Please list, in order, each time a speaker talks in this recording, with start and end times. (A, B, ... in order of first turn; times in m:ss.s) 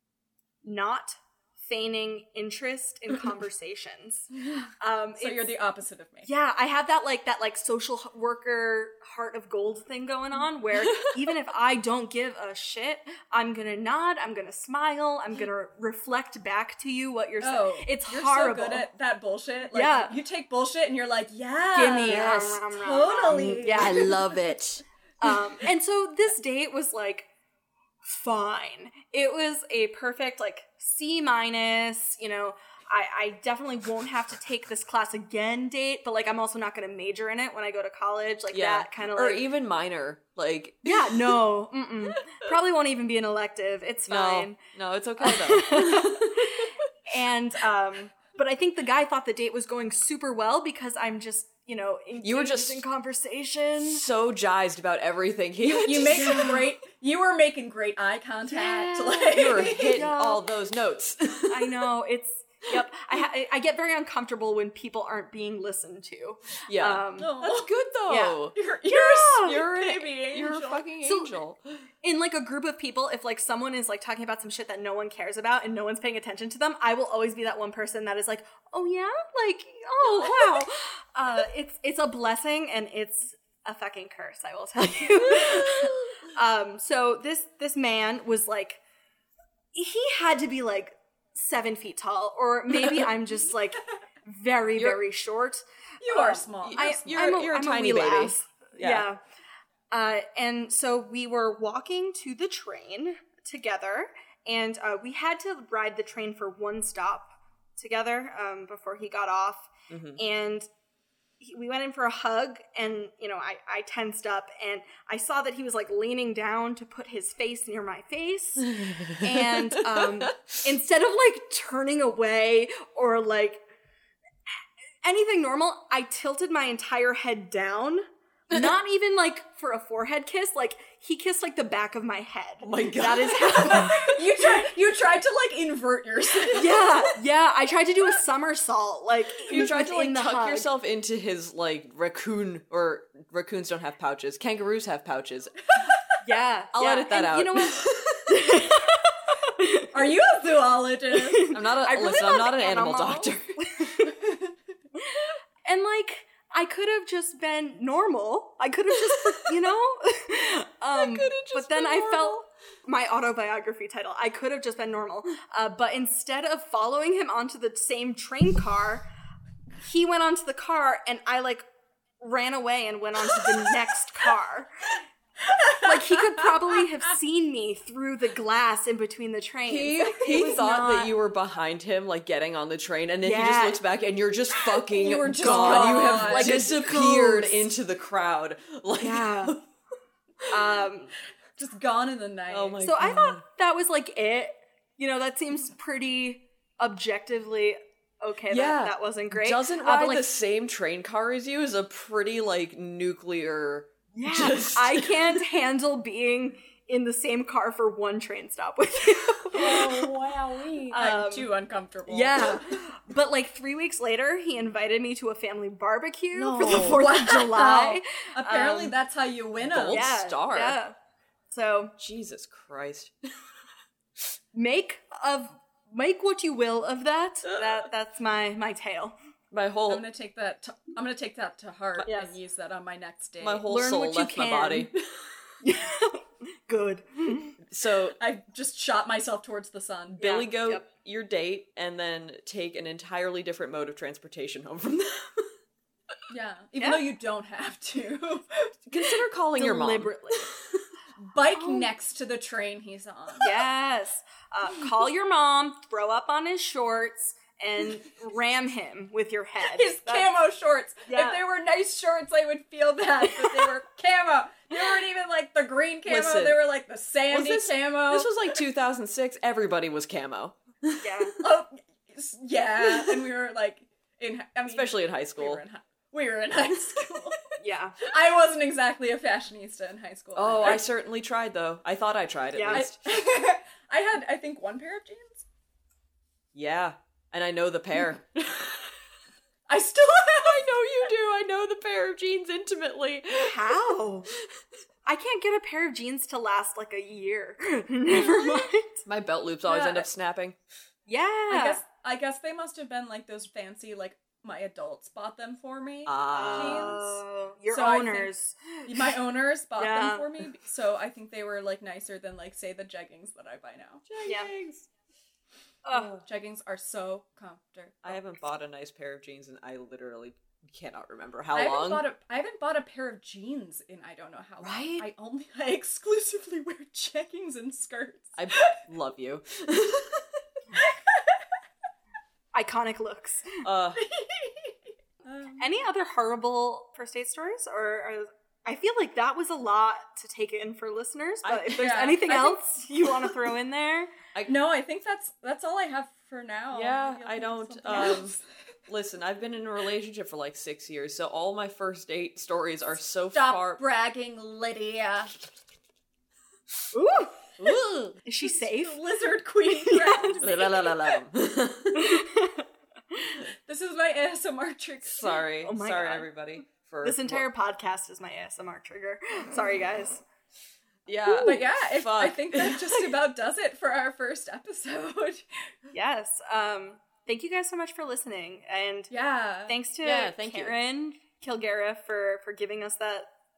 0:00.6-0:04.3 A
0:04.8-0:05.5 A
0:05.2-0:06.3 B
0:06.2-0:18.9 A
0:17.4-0:24.2 B
0:19.7-0:20.2 A
0:21.7-0:24.4 A
0:22.0-0:22.6 C
0:23.3-0:24.8 C
0:25.2-0:27.3 A
0:28.0-0:39.4 A
0:38.5-0:41.3 C
0:40.8-0:44.6 A
0:44.1-0:46.8 C
0:45.2-0:54.0 A
0:52.2-0:52.8 C
0:53.9-0:56.6 C
0:55.8-1:00.1 B
0:55.9-0:56.7 A
0:58.5-1:00.5 A
0:59.3-1:01.9 C
1:01.5-1:07.4 A
1:06.6-1:08.5 C
1:07.2-1:07.7 B
1:08.1-1:09.7 A
1:08.5-1:10.8 B
1:09.2-1:11.8 C
1:11.0-1:11.3 A
1:12.0-1:28.8 A
1:20.0-1:20.6 C
1:25.2-1:26.2 C
1:29.7-1:39.2 A
1:32.7-1:32.9 C
1:34.8-1:35.0 C
1:36.0-1:37.3 B
1:36.6-1:39.1 C
1:39.9-1:50.7 A
1:49.9-1:50.2 C
1:51.4-2:03.6 A
1:58.7-2:00.5 C
2:05.0-2:14.6 A
2:12.6-2:14.1 C
2:14.0-2:16.8 B
2:16.5-2:20.7 A
2:19.4-2:25.5 C
2:26.2-2:30.3 A
2:26.7-2:28.4 C
2:29.9-2:31.5 B
2:31.1-2:34.2 A
2:31.5-2:33.7 C
2:35.0-2:49.0 A
2:39.0-2:39.6 C
2:40.9-2:42.4 C
2:49.8-2:51.6 A
2:52.2-2:54.9 A
2:55.8-3:01.1 A
2:59.6-3:09.6 C
3:03.2-3:03.8 A
3:04.9-3:06.7 B
3:05.4-3:07.7 A
3:09.0-3:09.5 A
3:10.5-3:11.1 A
3:11.6-3:12.8 B
3:12.5-3:13.4 C
3:12.8-3:20.3 A
3:18.5-3:25.4 C
3:24.1-3:30.1 A
3:29.5-3:31.0 C
3:29.8-3:30.1 B
3:30.7-3:32.7 B
3:30.9-3:31.5 A
3:32.0-3:39.0 A
3:36.3-3:37.0 C
3:36.7-3:40.1 B
3:39.6-3:40.8 C
3:39.9-3:40.9 A
3:41.5-3:41.9 A
3:42.0-3:43.1 C
3:44.5-3:49.2 A
3:49.5-3:50.1 C
3:49.9-3:53.7 B
3:52.0-3:52.3 A
3:53.4-3:55.4 C
3:53.6-3:54.9 A
3:55.6-3:57.6 A
3:57.7-3:58.2 C
3:58.2-4:00.4 B
4:00.2-4:05.5 C
4:00.2-4:00.8 A
4:06.3-4:08.7 B
4:06.8-4:07.1 A
4:08.9-4:10.8 C
4:09.6-4:10.5 A
4:11.2-4:13.5 B
4:11.5-4:11.9 A
4:13.4-4:20.3 A
4:19.6-4:28.3 B
4:21.1-4:21.4 A
4:23.2-4:23.7 A
4:26.0-4:26.6 C
4:27.3-4:31.3 C
4:31.0-4:31.4 A
4:31.4-4:37.4 B
4:34.6-4:35.6 C
4:37.6-4:38.0 A
4:38.0-4:40.8 B
4:40.3-4:43.0 C
4:42.5-4:42.9 A
4:42.7-4:45.4 B
4:46.5-4:48.9 C
4:49.7-4:50.6 B
4:50.4-4:53.9 C
4:53.4-4:54.3 A
4:55.0-4:59.0 A
4:59.0-5:00.6 C
4:59.6-5:00.1 B
5:01.1-5:01.8 A
5:01.5-5:07.0 B
5:06.0-5:07.2 C
5:06.3-5:09.1 A
5:07.7-5:08.3 B
5:08.8-5:14.0 B
5:09.8-5:10.4 A
5:14.1-5:14.9 C
5:14.2-5:14.5 A
5:15.8-5:16.2 A
5:15.9-5:16.2 C
5:16.2-5:18.2 B
5:18.0-5:22.0 C
5:21.5-5:28.8 B
5:24.6-5:25.1 C
5:28.3-5:30.4 C
5:30.8-5:31.1 B
5:32.5-5:33.6 A
5:33.6-5:34.0 C
5:34.0-5:34.7 B
5:35.2-5:35.6 B
5:35.6-5:44.1 A
5:41.4-5:42.3 C
5:41.8-5:42.6 B
5:44.4-5:48.4 B
5:46.7-5:48.4 C
5:48.9-5:53.8 C
5:53.3-5:55.3 B
5:56.9-5:57.5 A
5:57.6-5:58.2 C
5:58.2-5:59.1 A
5:58.4-6:00.8 B
5:59.7-6:00.4 A
6:00.4-6:02.2 C
6:02.0-6:02.6 A
6:03.6-6:05.2 B
6:05.0-6:07.4 C
6:05.6-6:06.3 A
6:07.0-6:10.2 A
6:11.1-6:13.1 C
6:11.4-6:15.4 B
6:15.9-6:19.1 A
6:19.1-6:19.8 B
6:19.6-6:23.3 A
6:20.0-6:20.8 C